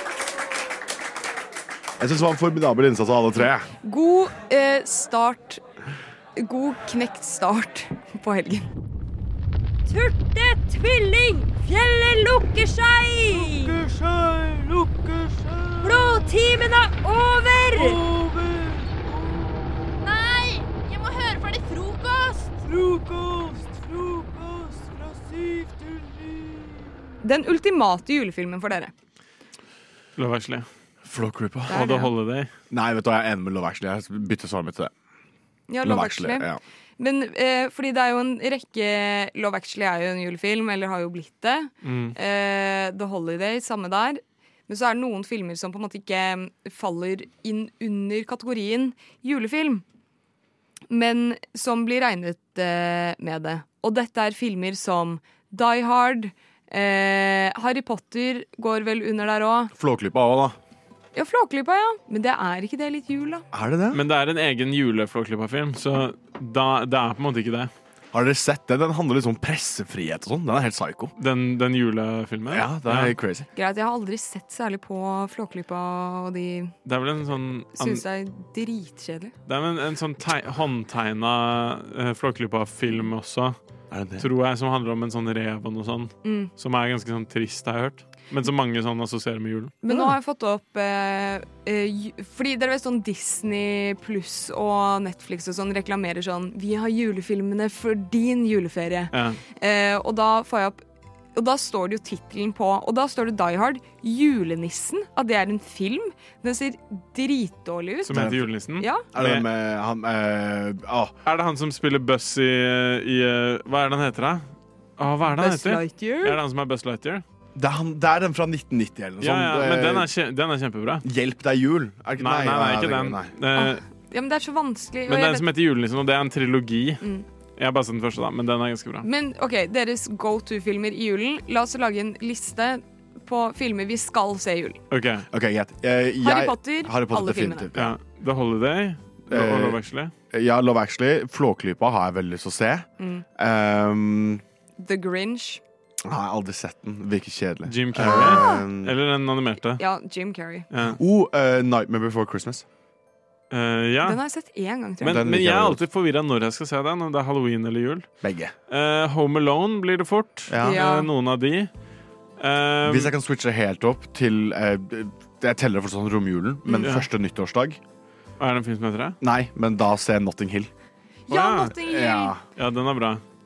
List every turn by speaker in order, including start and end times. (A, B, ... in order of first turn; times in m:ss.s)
0:02.0-0:03.7 A
0:03.8-0:05.6 B
0:06.4-0:08.7 B
0:09.9-0:13.8 C
0:15.8-0:18.0 C
0:20.2-0:25.2 D
0:27.2-0:28.9 B
0:30.2-0:30.7 E
0:31.0-0:31.9 A
0:31.7-0:32.1 B
0:31.8-0:32.5 E
0:32.7-0:34.9 A
0:35.7-0:36.5 B
0:35.8-0:36.6 A
0:37.0-0:49.8 B
0:41.8-0:42.2 E
0:50.9-0:59.7 B
0:59.8-1:00.6 A
1:01.1-1:03.4 B
1:03.5-1:04.0 A
1:03.9-1:07.7 E
1:08.1-1:11.1 A
1:11.2-1:13.1 E
1:12.5-1:13.5 A
1:13.5-1:16.7 B
1:16.8-1:18.0 E
1:17.7-1:19.3 B
1:19.5-1:23.6 E
1:23.9-1:24.3 A
1:24.2-1:29.8 E
1:26.2-1:26.5 B
1:29.8-1:40.8 B
1:39.1-1:39.4 E
1:41.3-1:48.1 B
1:48.1-1:49.5 E
1:48.1-1:48.5 A
1:48.8-1:49.1 B
1:49.1-1:51.1 A
1:51.2-1:54.4 E
1:55.0-1:57.2 E
1:55.3-1:56.4 B
1:57.5-2:00.1 A
1:59.2-2:01.0 E
2:01.0-2:03.3 A
2:02.2-2:03.8 E
2:03.5-2:05.5 B
2:05.1-2:07.0 E
2:07.0-2:07.2 B
2:07.6-2:09.0 E
2:09.0-2:14.8 B
2:14.9-2:15.3 E
2:15.3-2:17.9 A
2:16.2-2:17.7 B
2:17.7-2:20.1 E
2:19.3-2:19.8 A
2:20.3-2:22.9 A
2:23.0-2:23.2 B
2:23.4-2:24.4 A
2:24.8-2:25.6 B
2:26.0-2:28.9 A
2:27.7-2:29.8 E
2:28.0-2:28.6 B
2:29.8-2:30.6 B
2:30.7-2:31.0 E
2:30.9-2:32.6 A
2:33.5-2:34.2 E
2:34.0-2:35.2 B
2:35.0-2:38.1 E
2:35.0-2:35.8 A
2:38.2-2:38.5 A
2:38.7-2:41.7 E
2:40.5-2:40.8 A
2:40.6-2:41.1 B
2:42.4-2:43.1 E
2:42.8-2:47.8 A
2:46.7-2:47.1 E
2:48.4-2:49.2 E
2:49.2-2:50.7 A
2:51.3-2:52.3 B
2:51.3-2:51.7 E
2:51.7-2:52.4 A
2:52.6-2:53.2 E